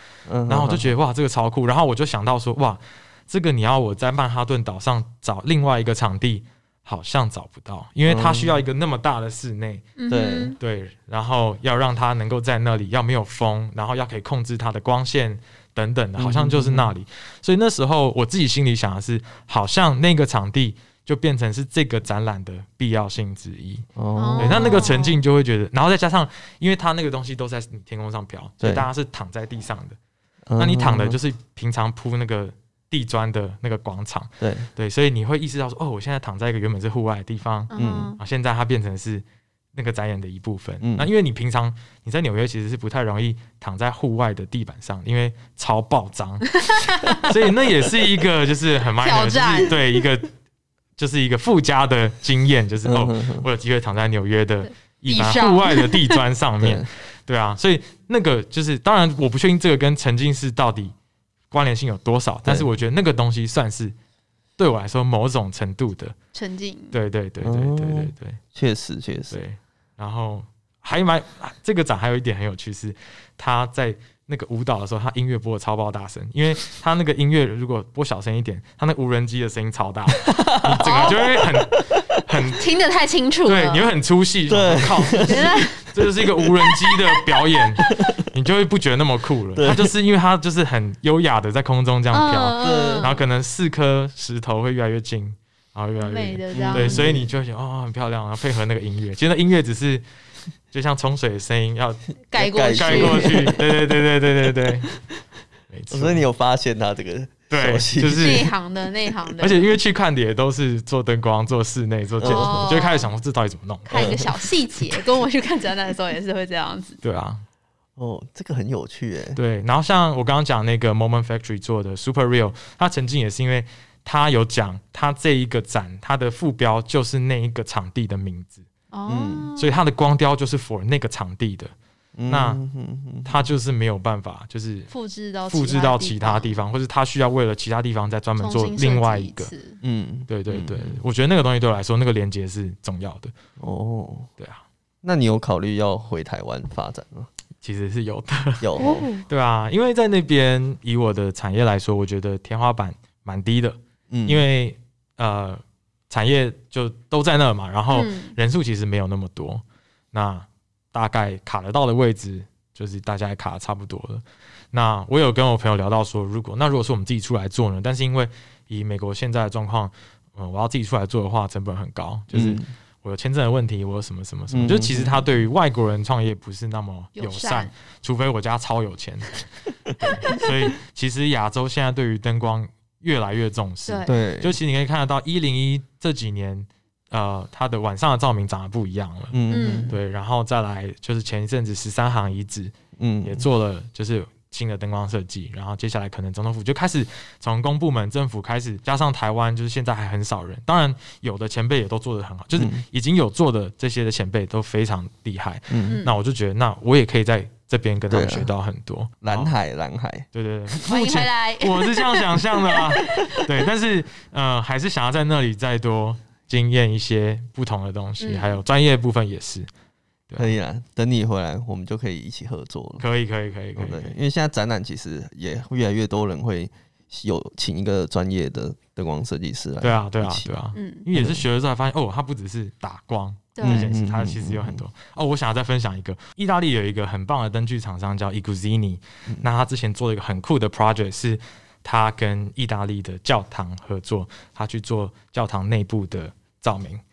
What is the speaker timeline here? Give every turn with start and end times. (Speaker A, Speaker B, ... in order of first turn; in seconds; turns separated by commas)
Speaker A: 0.2-0.9, Speaker B: 0.5-9.9, Speaker A: 8.0-8.6, Speaker C: 10.0-10.6, Speaker A: 10.1-10.6, Speaker B: 10.6-23.9, Speaker A: 16.2-16.9, Speaker A: 23.9-24.9, Speaker C: 24.1-25.2, Speaker B: 24.4-30.0, Speaker A: 28.6-28.9, Speaker A: 30.5-31.2, Speaker B: 30.6-50.3, Speaker A: 34.4-34.7, Speaker C: 37.7-38.2, Speaker A: 37.8-38.1, Speaker A: 40.8-41.1, Speaker C: 46.5-47.2, Speaker C: 49.0-49.8, Speaker B: 51.0-60.9, Speaker A: 52.8-53.5, Speaker C: 55.1-56.2, Speaker A: 56.6-56.9, Speaker B: 61.5-63.9, Speaker B: 64.6-66.1, Speaker C: 66.3-66.9, Speaker B: 66.9-68.4, Speaker A: 67.4-69.4, Speaker B: 69.3-82.6, Speaker A: 80.2-82.4, Speaker C: 80.8-81.2, Speaker C: 82.5-83.9, Speaker B: 83.5-100.0, Speaker A: 84.5-87.0, Speaker C: 85.2-85.8, Speaker A: 87.8-88.2, Speaker A: 89.5-89.9, Speaker C: 92.1-93.2, Speaker A: 92.6-93.2, Speaker C: 96.0-97.1, Speaker A: 96.5-97.3, Speaker B: 100.7-102.0, Speaker C: 102.3-103.4, Speaker A: 102.3-104.6, Speaker B: 102.7-104.9, Speaker B: 105.7-106.2, Speaker A: 105.9-108.5, Speaker B: 107.5-108.5, Speaker C: 108.1-109.8, Speaker B: 109.4-114.8, Speaker A: 112.2-112.8, Speaker C: 112.2-113.1, Speaker C: 113.8-117.0, Speaker A: 113.9-114.3, Speaker B: 117.0-117.4, Speaker A: 118.0-119.4, Speaker B: 119.3-128.6, Speaker C: 128.9-129.8, Speaker A: 129.1-129.5, Speaker B: 129.6-131.7, Speaker A: 132.2-133.4, Speaker B: 132.3-132.6, Speaker B: 133.2-134.9, Speaker C: 134.9-136.5, Speaker B: 135.4-139.5, Speaker C: 138.4-139.8, Speaker A: 139.8-141.0, Speaker B: 140.3-143.3, Speaker A: 143.6-144.3, Speaker B: 144.4-144.6, Speaker A: 145.0-147.3, Speaker B: 147.6-179.4, Speaker A: 148.6-149.1, Speaker C: 148.8-149.3, Speaker A: 154.1-154.4, Speaker C: 157.9-158.3, Speaker A: 172.3-172.7, Speaker A: 174.5-175.2, Speaker C: 177.2-177.7, Speaker B: 179.9-189.4, Speaker C: 183.9-184.2, Speaker A: 184.1-184.6, Speaker A: 189.3-189.9, Speaker C: 189.5-189.9, Speaker B: 189.9-209.5, Speaker A: 193.0-193.4, Speaker A: 202.6-202.8, Speaker A: 205.7-206.0, Speaker C: 205.8-206.1, Speaker A: 208.1-208.5, Speaker A: 209.2-210.3, Speaker B: 210.3-219.7, Speaker C: 210.9-213.4, Speaker C: 218.2-218.6, Speaker B: 220.3-220.5, Speaker A: 220.4-223.0, Speaker B: 223.0-224.1, Speaker A: 223.8-230.5, Speaker B: 229.8-247.0, Speaker C: 230.7-231.0, Speaker A: 231.1-231.4, Speaker C: 233.5-233.9, Speaker A: 233.6-234.8